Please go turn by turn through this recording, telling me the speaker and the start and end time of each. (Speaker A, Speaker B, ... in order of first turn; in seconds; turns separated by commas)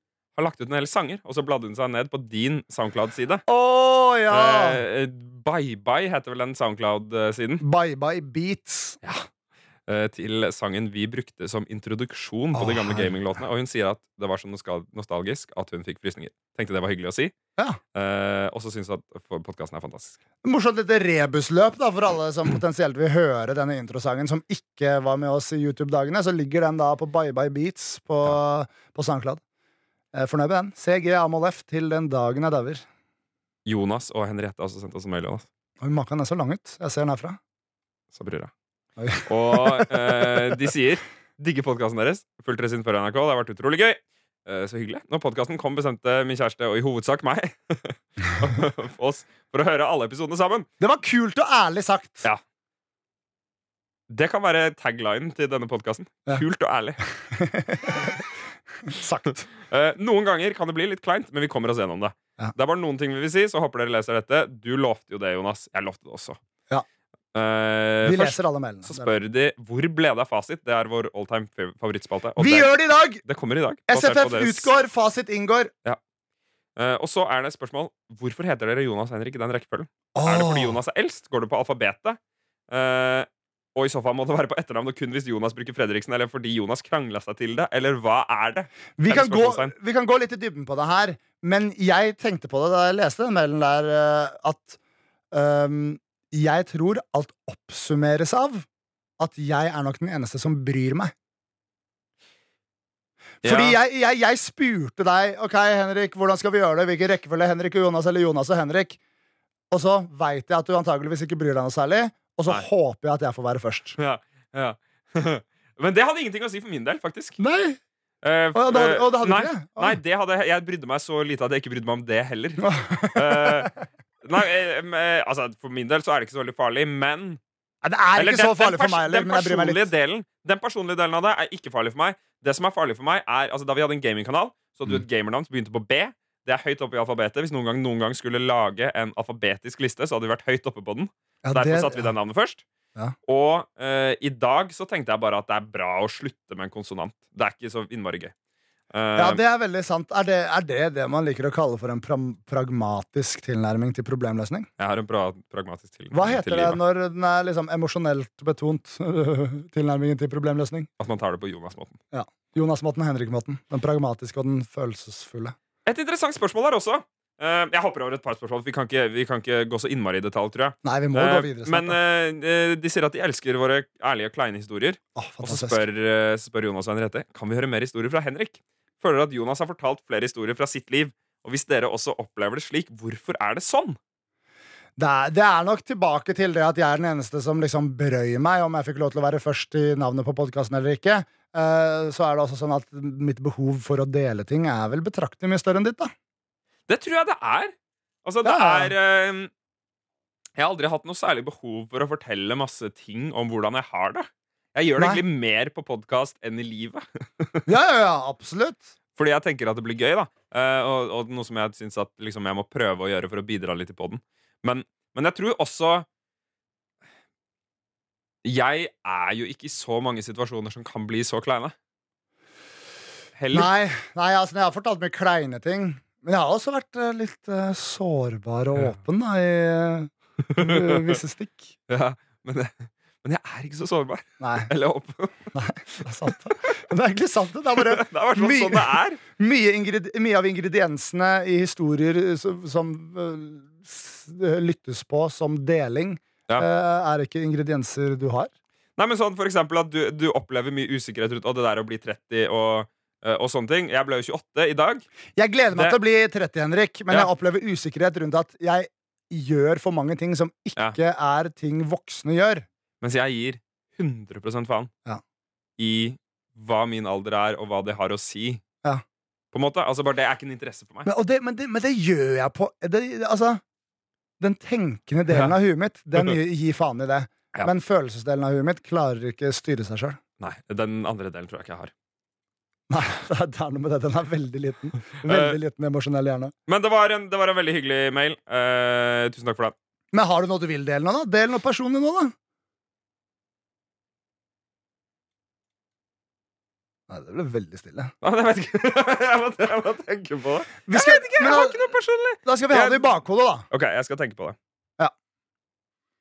Speaker A: 0.4-3.4, Speaker B: 3.5-4.8, Speaker A: 4.3-7.6, Speaker B: 7.6-9.0, Speaker A: 9.9-17.4, Speaker B: 12.5-13.1, Speaker A: 17.9-20.2, Speaker B: 20.4-29.4, Speaker B: 30.1-32.9, Speaker A: 33.7-35.5, Speaker B: 35.8-37.4, Speaker A: 38.1-38.5, Speaker B: 39.0-40.5, Speaker A: 39.3-50.7, Speaker B: 50.8-52.2, Speaker A: 54.1-57.0, Speaker B: 57.3-58.2, Speaker B: 58.9-59.5, Speaker A: 59.6-66.4, Speaker A: 67.3-74.7, Speaker B: 68.0-69.1, Speaker B: 72.4-73.2, Speaker B: 73.9-75.7, Speaker A: 76.8-82.2, Speaker B: 80.1-80.8, Speaker A: 82.7-89.7, Speaker B: 89.0-94.8, Speaker B: 95.3-98.7, Speaker B: 99.2-101.1, Speaker B: 103.4-109.0, Speaker A: 103.4-103.8, Speaker B: 109.7-114.0, Speaker A: 114.0-117.4, Speaker B: 117.4-117.8, Speaker A: 118.2-123.7, Speaker B: 118.5-120.0, Speaker B: 122.6-123.7, Speaker A: 124.2-127.4, Speaker B: 127.8-129.9, Speaker A: 128.2-142.6, Speaker B: 141.4-142.1, Speaker A: 143.3-148.3, Speaker A: 148.9-149.4, Speaker B: 149.2-154.7, Speaker A: 154.8-156.8, Speaker B: 156.1-160.9, Speaker A: 161.0-162.0, Speaker B: 162.1-165.6, Speaker A: 165.9-184.0, Speaker B: 170.8-172.0, Speaker B: 175.2-175.8, Speaker B: 185.0-196.1, Speaker A: 196.9-199.5, Speaker B: 198.4-198.9, Speaker A: 200.6-207.7, Speaker B: 205.0-205.2, Speaker B: 207.7-208.9, Speaker A: 209.2-216.1, Speaker A: 218.4-221.7, Speaker A: 223.4-223.7, Speaker B: 223.5-231.7, Speaker A: 230.6-231.2, Speaker A: 231.9-235.5, Speaker B: 234.4-234.7, Speaker B: 235.5-248.5, Speaker A: 237.8-239.2, Speaker A: 249.0-255.1, Speaker B: 255.4-262.7, Speaker A: 255.7-256.0, Speaker A: 263.0-264.9, Speaker A: 265.8-268.6, Speaker A: 269.5-271.1, Speaker B: 271.1-273.6, Speaker B: 274.4-280.2, Speaker A: 280.4-281.9, Speaker B: 282.9-286.5, Speaker A: 285.2-285.6, Speaker A: 286.7-289.8, Speaker B: 290.1-292.3, Speaker B: 297.1-298.1, Speaker A: 298.2-303.1, Speaker B: 300.9-301.9, Speaker B: 302.4-303.7, Speaker A: 303.7-304.6